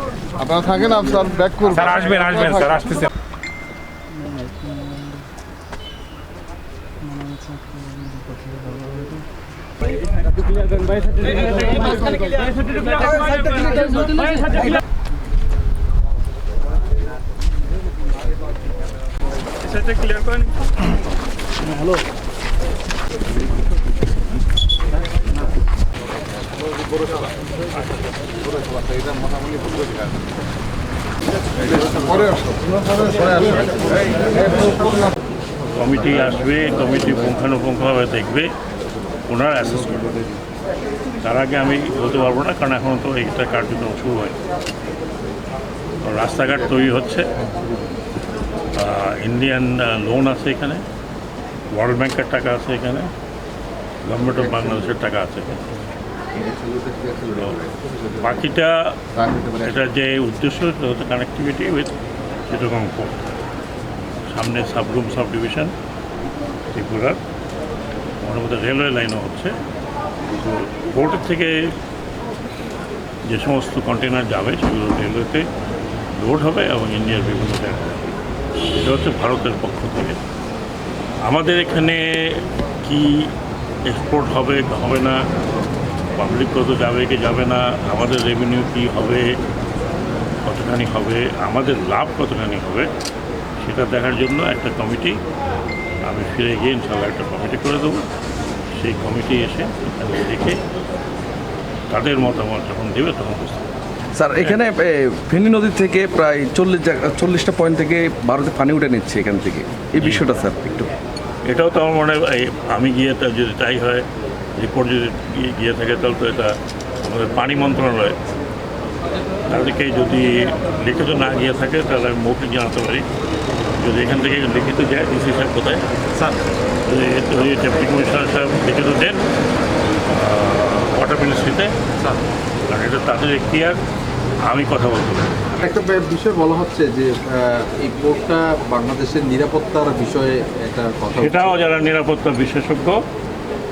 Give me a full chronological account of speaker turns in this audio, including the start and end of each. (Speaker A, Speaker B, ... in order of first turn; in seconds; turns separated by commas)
Speaker A: 0.4-2.3, Speaker B: 1.7-3.1, Speaker A: 7.2-7.6, Speaker B: 13.1-14.3, Speaker B: 19.8-20.5, Speaker C: 35.8-38.5, Speaker C: 39.3-40.2, Speaker C: 41.2-44.4, Speaker C: 46.0-47.3, Speaker C: 48.8-50.8, Speaker C: 51.7-53.1, Speaker C: 54.0-55.6, Speaker D: 56.4-57.3, Speaker C: 57.3-59.0, Speaker C: 59.5-61.9, Speaker C: 62.5-63.2, Speaker C: 64.3-65.7, Speaker C: 66.7-67.2, Speaker C: 68.2-69.5, Speaker C: 70.3-71.7, Speaker C: 73.3-75.5, Speaker C: 76.2-78.1, Speaker C: 78.8-80.2, Speaker C: 81.2-83.3, Speaker C: 83.9-85.2, Speaker C: 86.2-89.3, Speaker C: 90.5-92.9, Speaker C: 93.6-95.2, Speaker C: 96.1-98.0, Speaker C: 98.8-100.6, Speaker C: 101.9-103.7, Speaker E: 104.2-110.9, Speaker C: 110.0-110.3, Speaker C: 111.5-114.0, Speaker C: 114.6-118.2, Speaker C: 119.5-123.0, Speaker C: 123.8-125.8, Speaker C: 126.9-129.2, Speaker C: 130.1-131.7, Speaker C: 132.7-133.8, Speaker C: 134.5-135.5, Speaker D: 135.6-141.5, Speaker C: 141.2-143.0